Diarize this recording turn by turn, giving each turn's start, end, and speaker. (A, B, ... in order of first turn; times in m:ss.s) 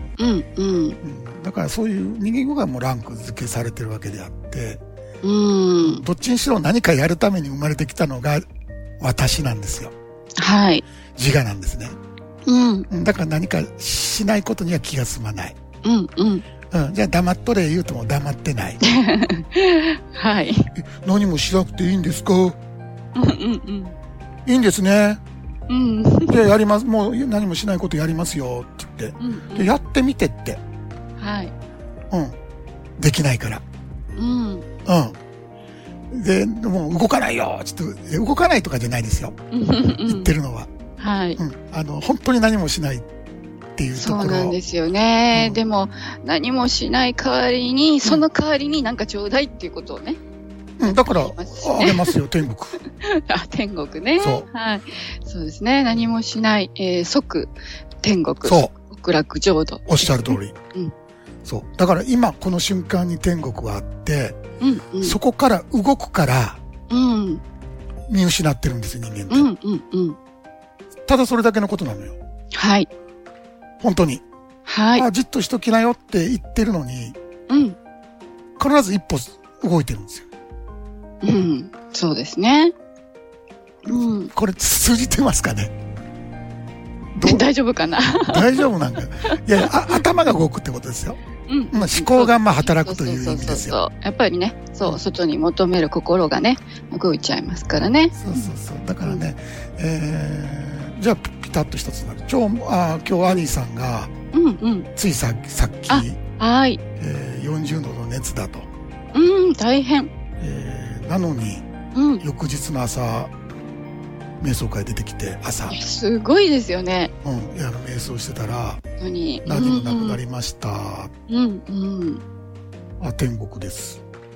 0:00.2-0:01.0 A
0:01.0-0:04.8 B
0:05.2-0:06.0 A
0:05.8-0:08.4 B
0:09.0-0:09.9 B
0:10.4-0:10.8 A
0:11.2-0:12.0 B
0:12.5-0:12.9 A
0:12.9-0:15.6 B
0:15.8-0:16.5 A
0:16.7-0:18.8 B
0:18.8-0:20.7 A
0:20.8-0:22.6 B
0:23.2-0:24.0 A
0:24.5-0:25.2 B
0:25.7-0:26.5 A
0:26.3-0:30.6 B
0:29.2-0:29.7 A
0:31.2-0:31.5 A
0:32.1-0:32.4 B
0:33.0-0:33.6 B
0:34.2-0:34.7 A
0:34.8-0:35.2 B
0:36.1-0:39.4 B
0:39.5-0:40.3 A
0:39.9-0:40.7 B
0:41.0-0:41.4 A
0:41.4-0:43.1 B
0:43.8-0:44.6 B
0:44.0-0:50.2 A
0:45.3-0:45.6 B
0:50.8-0:52.8 B
0:50.8-0:52.2 A
0:52.8-1:00.9 A
0:54.2-0:54.5 B
0:58.4-0:58.7 B
0:59.9-1:00.6 B
1:01.4-1:04.4 B
1:04.6-1:05.2 A
1:05.0-1:06.6 B
1:06.9-1:07.4 A
1:08.1-1:09.5 B
1:09.3-1:10.2 A
1:11.1-1:12.2 B
1:12.5-1:12.9 A
1:13.8-1:14.2 B
1:14.7-1:15.1 A
1:15.0-1:17.2 B
1:17.5-1:17.8 A
1:18.6-1:20.3 B
1:21.2-1:22.7 A
1:23.9-1:24.3 A
1:23.9-1:25.7 B
1:27.1-1:27.4 B
1:27.2-1:28.7 A
1:28.3-1:31.2 B
1:29.3-1:30.0 A
1:31.5-1:38.5 A
1:31.7-1:33.8 B
1:38.2-1:44.1 B
1:44.3-1:44.9 A
1:45.0-1:46.2 B
1:45.9-1:46.8 A
1:47.0-1:48.7 B
1:49.1-1:50.1 A
1:50.4-1:51.7 B
1:51.9-1:52.2 A
1:52.2-1:53.3 B
1:54.4-1:55.8 B
1:55.7-1:57.1 A
1:57.2-1:58.8 B
1:59.0-2:00.2 A
1:59.4-2:01.1 B
2:01.3-2:02.2 A
2:03.0-2:04.0 B